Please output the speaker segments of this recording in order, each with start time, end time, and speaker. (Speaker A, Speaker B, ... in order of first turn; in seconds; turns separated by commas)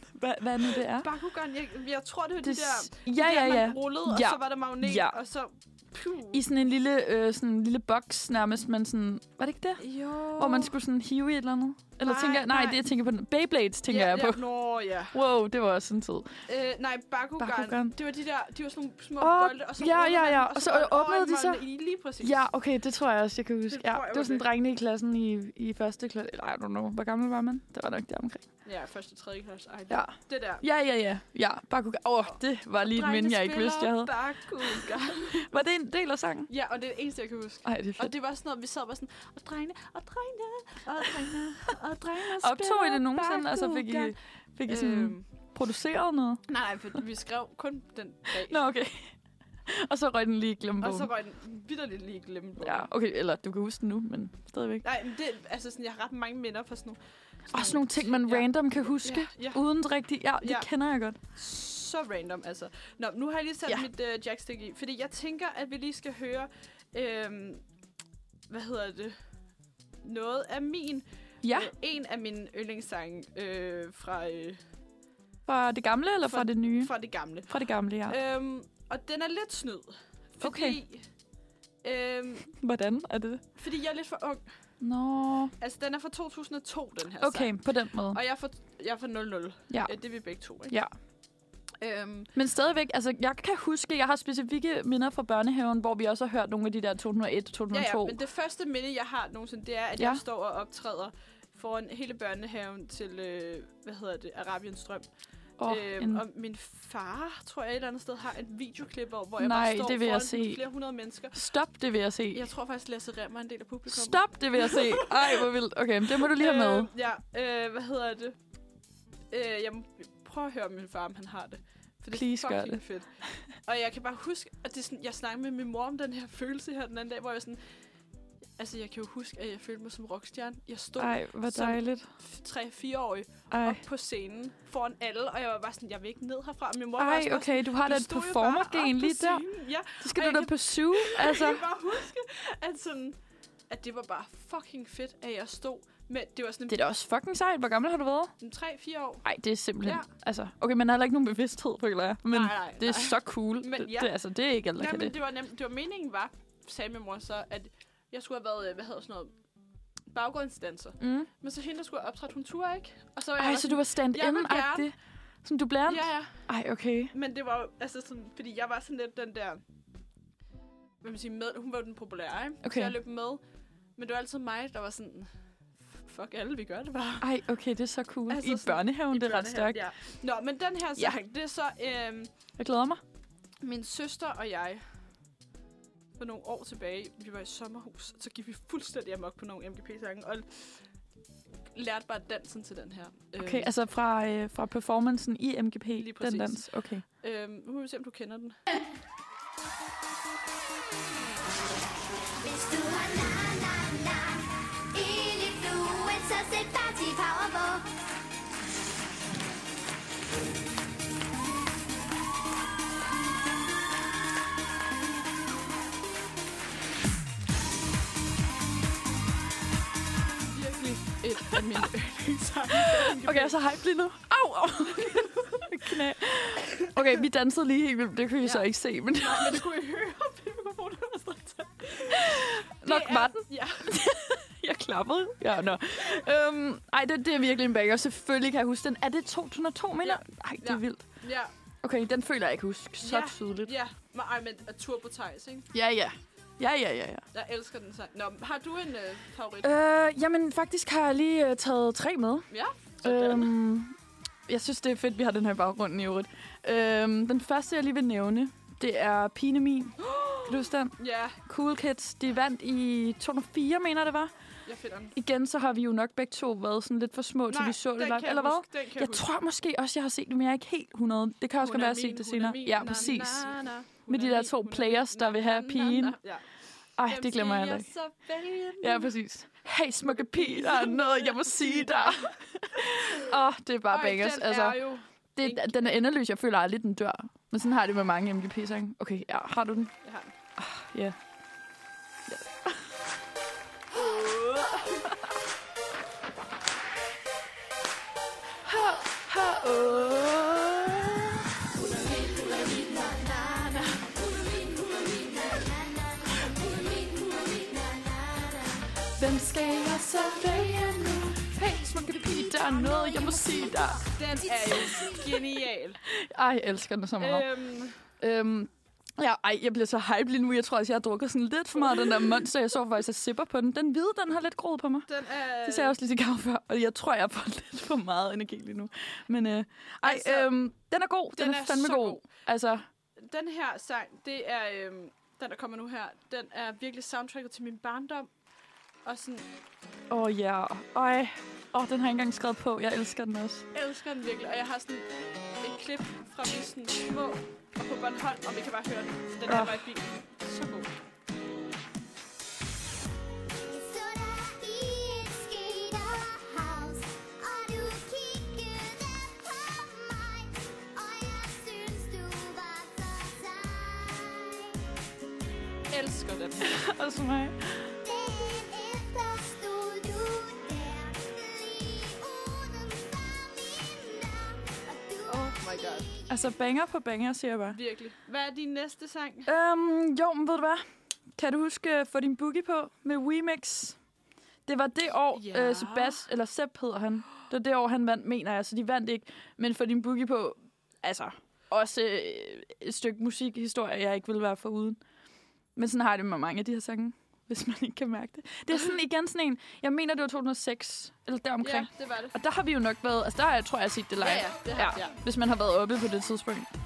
Speaker A: 0.1-1.1, Speaker B: 1.0-6.4, Speaker A: 2.4-5.2, Speaker A: 6.3-14.5, Speaker B: 9.8-10.8, Speaker B: 12.0-12.8, Speaker B: 13.9-15.2, Speaker A: 15.1-16.4, Speaker B: 16.5-22.5, Speaker A: 17.4-18.0, Speaker A: 19.2-21.6, Speaker A: 22.2-28.5, Speaker B: 23.7-24.5, Speaker B: 28.6-30.6, Speaker A: 29.9-36.5, Speaker B: 32.3-35.6, Speaker B: 36.5-44.1, Speaker A: 37.6-38.1, Speaker A: 42.4-46.5, Speaker B: 44.7-45.3, Speaker B: 46.5-48.6, Speaker A: 48.4-51.1, Speaker B: 50.8-52.9, Speaker A: 52.6-54.9, Speaker B: 54.8-59.6, Speaker A: 57.5-61.2, Speaker B: 60.4-60.7, Speaker B: 61.3-67.6, Speaker B: 68.5-69.2, Speaker B: 70.0-74.6, Speaker A: 71.4-71.7, Speaker A: 75.5-78.2, Speaker B: 76.2-81.1, Speaker A: 80.4-80.8, Speaker B: 81.8-82.5, Speaker A: 82.6-83.4, Speaker B: 83.6-84.5, Speaker A: 84.8-85.5, Speaker B: 85.6-90.8, Speaker A: 87.2-88.2, Speaker A: 89.7-90.9, Speaker B: 91.8-92.3, Speaker A: 92.3-98.2, Speaker B: 97.7-105.0, Speaker A: 100.0-100.2, Speaker A: 105.6-106.2, Speaker B: 105.6-111.4, Speaker A: 109.4-110.6, Speaker A: 111.3-112.4, Speaker B: 112.3-115.4, Speaker A: 113.9-116.9, Speaker B: 116.4-118.4, Speaker B: 119.3-127.6, Speaker A: 122.1-123.2, Speaker B: 128.6-143.2, Speaker A: 131.0-132.1, Speaker A: 133.5-133.8, Speaker A: 137.0-139.5, Speaker A: 140.0-141.7, Speaker B: 143.7-146.8, Speaker A: 146.7-148.3, Speaker B: 148.4-150.1, Speaker A: 149.2-155.1, Speaker B: 152.3-154.2, Speaker B: 154.8-159.3, Speaker B: 160.1-164.9, Speaker A: 161.0-161.3, Speaker A: 163.4-167.1, Speaker B: 165.9-166.5, Speaker B: 167.1-169.6, Speaker B: 171.0-173.4, Speaker A: 172.6-172.9, Speaker B: 174.0-177.3, Speaker A: 177.2-179.9, Speaker B: 178.3-182.3, Speaker A: 182.6-183.0, Speaker B: 183.6-184.8, Speaker B: 186.2-190.8, Speaker B: 191.7-193.7, Speaker A: 193.4-197.1, Speaker B: 196.0-198.6, Speaker C: 202.4-207.9, Speaker B: 220.5-223.6, Speaker A: 222.8-229.7, Speaker B: 225.0-225.7, Speaker B: 228.4-234.0, Speaker A: 232.1-241.2, Speaker B: 240.0-241.5, Speaker A: 241.8-243.7, Speaker B: 243.0-245.7, Speaker A: 245.7-247.2, Speaker B: 247.3-249.7, Speaker A: 249.6-252.5, Speaker B: 252.5-253.5, Speaker A: 253.0-254.0, Speaker A: 254.5-264.3, Speaker B: 260.0-261.4, Speaker B: 264.7-265.1, Speaker A: 265.1-276.2, Speaker B: 267.5-269.3, Speaker B: 271.6-279.1, Speaker A: 277.0-277.9, Speaker A: 278.8-289.9, Speaker B: 280.0-283.3, Speaker B: 283.9-286.0, Speaker B: 290.0-290.3, Speaker A: 290.6-291.2, Speaker A: 292.3-293.0, Speaker B: 293.9-295.1, Speaker A: 298.6-301.3, Speaker C: 301.8-308.9, Speaker A: 309.2-314.1, Speaker C: 310.4-315.4, Speaker B: 314.0-316.0, Speaker A: 316.1-317.5, Speaker B: 317.2-318.1, Speaker A: 318.0-332.9, Speaker B: 321.8-322.2, Speaker B: 325.1-326.0, Speaker B: 330.0-330.5, Speaker B: 331.3-332.2, Speaker B: 333.2-338.3, Speaker B: 339.1-339.5, Speaker A: 340.1-343.7, Speaker B: 343.7-345.1, Speaker B: 345.6-350.9, Speaker A: 349.5-349.8, Speaker C: 353.7-364.7, Speaker B: 365.9-366.8, Speaker A: 366.6-367.9, Speaker C: 368.0-376.5, Speaker B: 375.3-376.1, Speaker A: 376.3-377.8, Speaker B: 377.7-379.5, Speaker A: 379.5-380.9, Speaker A: 381.4-384.0, Speaker A: 384.7-395.0, Speaker B: 385.3-386.2, Speaker A: 395.8-406.7, Speaker B: 401.6-402.4, Speaker B: 404.2-405.2